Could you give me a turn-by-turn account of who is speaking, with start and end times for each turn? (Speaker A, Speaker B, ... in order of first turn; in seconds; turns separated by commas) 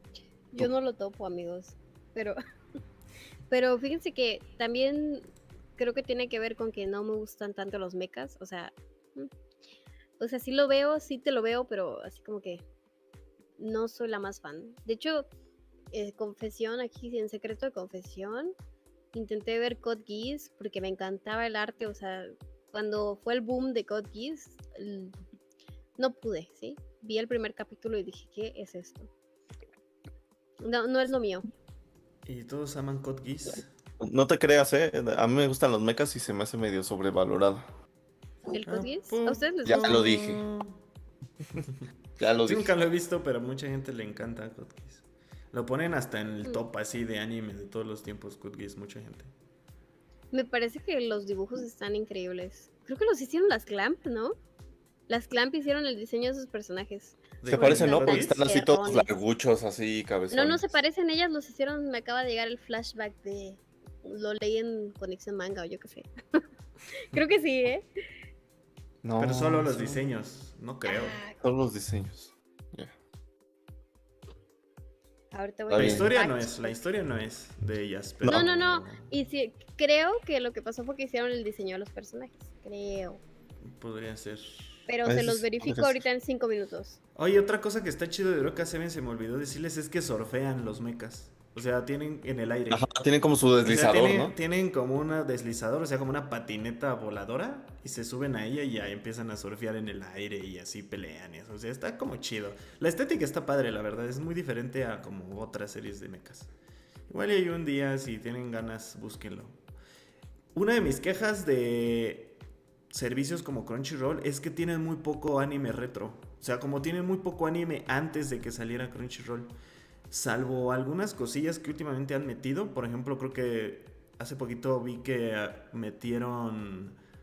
Speaker A: 0.5-2.4, Speaker A: 3.5-5.2, Speaker A: 5.8-9.3, Speaker A: 10.2-12.6, Speaker A: 13.6-15.3, Speaker A: 15.9-18.5, Speaker A: 19.1-25.2, Speaker A: 26.0-29.1, Speaker A: 30.6-31.5, Speaker B: 32.2-33.7, Speaker C: 34.0-37.7, Speaker A: 38.5-40.0, Speaker B: 38.6-40.8, Speaker C: 39.6-40.4, Speaker C: 42.2-42.7, Speaker B: 42.4-49.3, Speaker A: 50.3-54.3, Speaker A: 55.1-59.1, Speaker B: 57.4-58.4, Speaker C: 57.5-60.7, Speaker A: 60.3-67.8, Speaker C: 69.0-70.0, Speaker B: 69.2-71.2, Speaker A: 70.8-71.4, Speaker C: 71.4-72.9, Speaker A: 75.3-76.8, Speaker C: 75.7-76.1, Speaker B: 75.7-79.1, Speaker A: 78.3-83.2, Speaker B: 83.6-84.8, Speaker A: 84.9-87.0, Speaker C: 85.0-86.0, Speaker B: 87.2-92.8, Speaker C: 92.7-94.3, Speaker B: 93.6-106.5, Speaker B: 107.1-109.6, Speaker B: 110.5-112.4, Speaker B: 112.9-119.5, Speaker B: 120.1-127.0